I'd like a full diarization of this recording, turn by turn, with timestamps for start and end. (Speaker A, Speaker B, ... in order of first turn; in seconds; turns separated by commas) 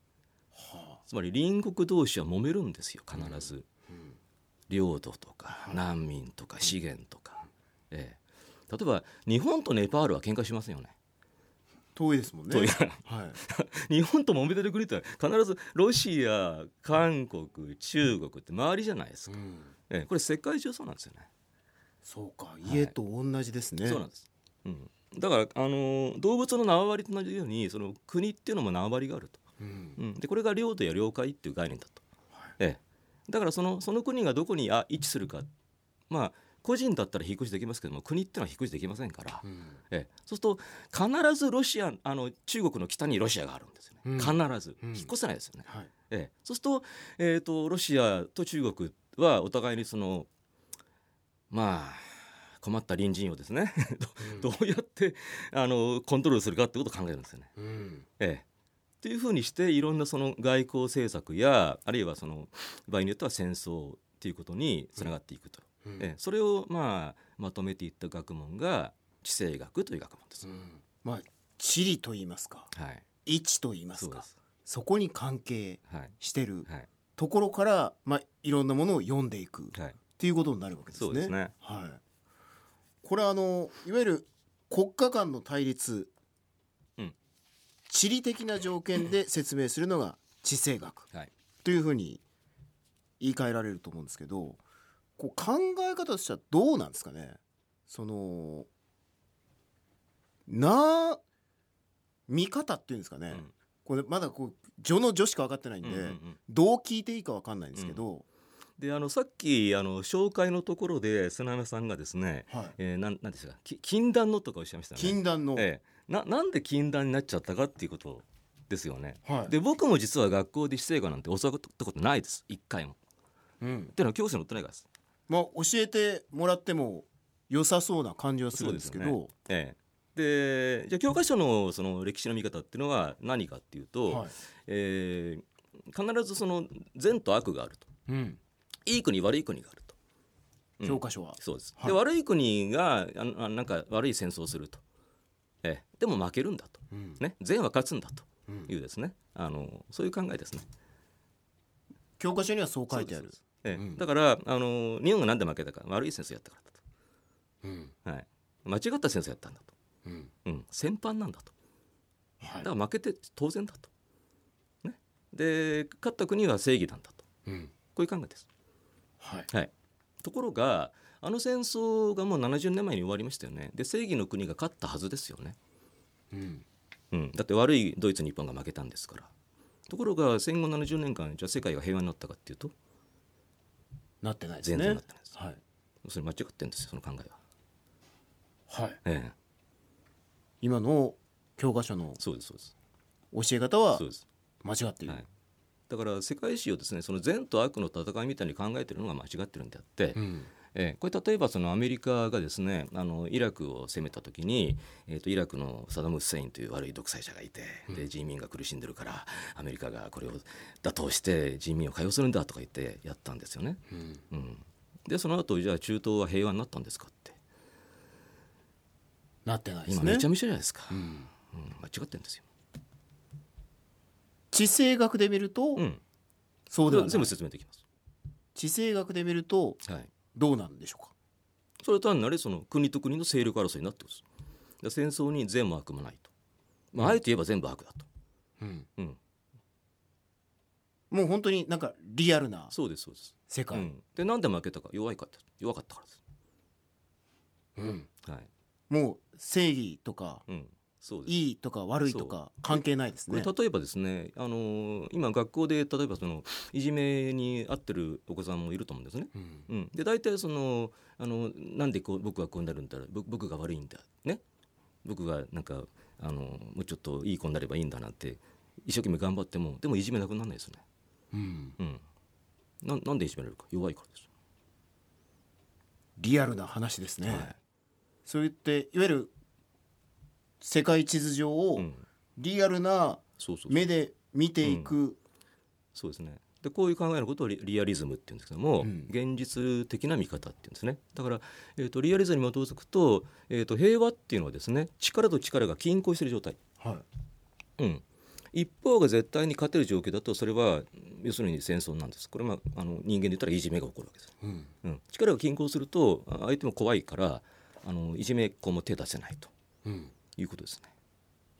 Speaker A: 0.5-1.0, Speaker B: 1.1-3.7, Speaker A: 3.1-4.1, Speaker B: 4.7-8.2, Speaker A: 5.5-5.8, Speaker B: 8.7-10.9, Speaker A: 11.9-13.4, Speaker B: 12.5-19.4, Speaker A: 19.3-19.7, Speaker B: 19.9-21.3, Speaker A: 22.0-24.0, Speaker B: 22.6-22.9, Speaker B: 23.8-29.4, Speaker A: 29.6-30.0, Speaker B: 30.0-32.0, Speaker B: 32.6-35.5, Speaker B: 36.1-50.3, Speaker A: 39.4-39.7, Speaker A: 44.0-45.1, Speaker B: 51.5-57.5, Speaker A: 54.2-54.5, Speaker A: 57.6-58.0, Speaker B: 58.2-58.4, Speaker B: 59.0-70.5, Speaker A: 70.4-72.7, Speaker B: 72.7-73.0, Speaker A: 73.2-82.0, Speaker B: 74.0-74.3, Speaker B: 75.9-76.1, Speaker B: 81.0-81.5, Speaker A: 83.0-86.1, Speaker A: 87.9-91.1, Speaker A: 91.6-92.2, Speaker A: 93.2-94.6, Speaker A: 95.2-98.7, Speaker A: 100.5-101.2, Speaker A: 102.3-108.2, Speaker B: 105.8-106.4, Speaker B: 107.7-108.0, Speaker B: 108.8-123.0, Speaker A: 112.5-112.8, Speaker A: 115.0-115.7, Speaker A: 119.2-119.5, Speaker A: 123.6-123.9, Speaker B: 123.9-124.9, Speaker A: 125.3-129.3, Speaker B: 128.5-137.9, Speaker A: 134.1-134.3, Speaker A: 138.1-138.4, Speaker B: 138.8-139.9, Speaker B: 140.8-144.8, Speaker A: 140.8-142.0, Speaker B: 145.6-150.7, Speaker A: 146.9-147.2, Speaker A: 148.5-148.7, Speaker A: 152.2-154.0, Speaker B: 152.9-156.8, Speaker A: 157.6-157.9, Speaker B: 158.0-159.7, Speaker A: 160.0-160.3, Speaker B: 160.4-161.5, Speaker A: 162.4-162.7, Speaker B: 162.6-163.9, Speaker B: 164.8-167.2, Speaker A: 167.4-167.7, Speaker B: 167.9-168.5, Speaker A: 169.2-169.5, Speaker B: 170.2-175.6, Speaker A: 176.3-176.6, Speaker B: 177.1-179.3, Speaker B: 179.9-182.7, Speaker A: 184.2-185.6, Speaker B: 184.6-185.4, Speaker B: 186.0-187.4, Speaker A: 188.7-189.0, Speaker B: 189.0-189.3, Speaker A: 190.6-192.2, Speaker B: 192.2-192.7, Speaker A: 193.3-194.0, Speaker B: 193.9-194.2, Speaker A: 194.6-195.2, Speaker B: 195.9-217.3, Speaker A: 200.2-200.5, Speaker A: 213.9-214.2, Speaker A: 219.4-220.3, Speaker B: 219.9-222.4, Speaker A: 220.9-221.3, Speaker A: 224.5-225.8, Speaker B: 225.8-226.0, Speaker A: 226.7-227.3, Speaker B: 226.9-227.8, Speaker A: 228.5-229.8, Speaker B: 229.8-230.1, Speaker A: 230.3-231.1, Speaker B: 231.8-234.2, Speaker B: 234.8-236.3, Speaker B: 236.9-238.1, Speaker A: 238.6-238.9, Speaker A: 241.1-242.7, Speaker B: 242.7-246.2, Speaker A: 243.5-243.9, Speaker A: 247.8-248.1, Speaker B: 248.2-248.5, Speaker A: 248.9-250.4, Speaker B: 250.5-251.3, Speaker A: 251.3-253.5, Speaker B: 252.0-264.4, Speaker A: 259.3-259.6, Speaker B: 265.0-270.8, Speaker A: 271.3-271.8, Speaker B: 271.8-272.0, Speaker B: 272.8-274.2, Speaker A: 276.2-277.5, Speaker B: 277.2-277.6, Speaker A: 278.2-279.3, Speaker A: 280.6-285.2, Speaker B: 281.8-282.0, Speaker B: 283.4-283.8, Speaker B: 284.6-284.9, Speaker B: 285.9-296.6, Speaker A: 288.8-289.1, Speaker A: 296.8-297.0, Speaker B: 297.8-304.3, Speaker A: 304.4-304.7, Speaker B: 304.8-309.5, Speaker A: 309.8-310.1, Speaker B: 310.4-310.9